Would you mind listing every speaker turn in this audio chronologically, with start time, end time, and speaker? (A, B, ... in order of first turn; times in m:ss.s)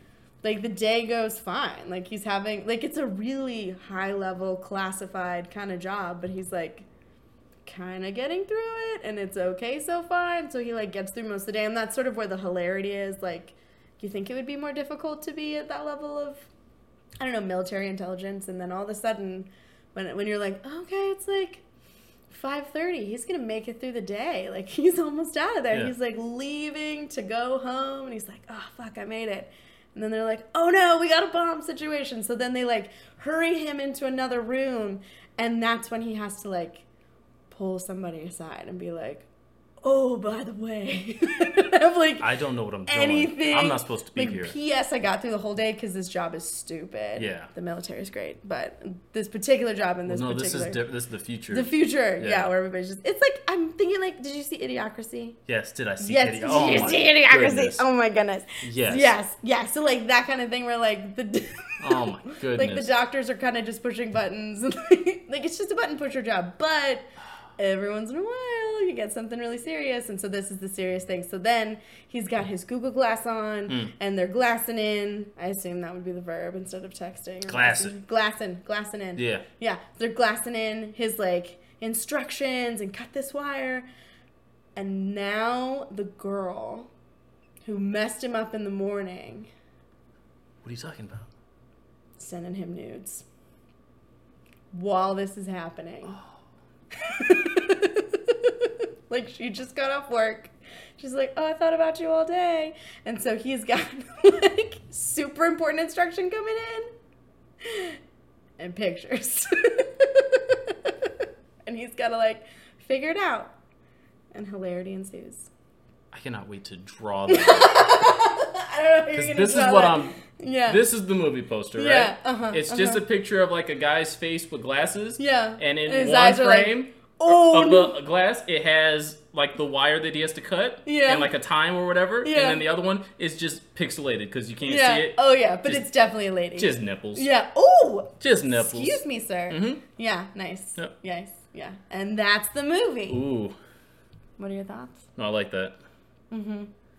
0:00.4-0:06.9 A
0:07.7-0:16.5 A
0:17.2-0:21.6 A
0:22.3-0:36.9 A
0:37.5-0:39.3 A
0:39.8-0:42.3 A
0:42.2-0:44.6 B
0:42.9-0:50.8 A
0:47.2-0:47.5 B
0:50.1-0:52.5 B
0:51.5-0:55.4 A
0:55.5-0:57.8 B
0:56.0-1:23.9 A
0:58.6-0:59.2 B
1:01.8-1:02.9 B
1:17.5-1:18.0 B
1:19.2-1:19.4 B
1:24.8-1:26.9 A
1:27.6-1:29.5 A
1:30.6-1:31.3 B
1:32.2-1:33.2 A
1:34.7-1:36.2 A
1:37.0-1:46.9 A
1:47.6-1:48.0 A
1:48.6-1:51.1 A
1:51.7-1:53.5 A
1:54.3-1:55.5 A
1:56.1-1:57.9 B
1:57.3-2:00.8 A
1:59.1-2:15.8 B
2:01.8-2:03.0 A
2:05.2-2:08.0 A
2:10.8-2:11.3 A
2:12.2-2:12.6 A
2:14.7-2:23.2 A
2:16.6-2:17.3 B
2:18.2-2:19.8 B
2:23.1-2:23.6 B
2:24.4-2:25.0 A
2:25.2-2:25.8 B
2:26.3-2:26.7 A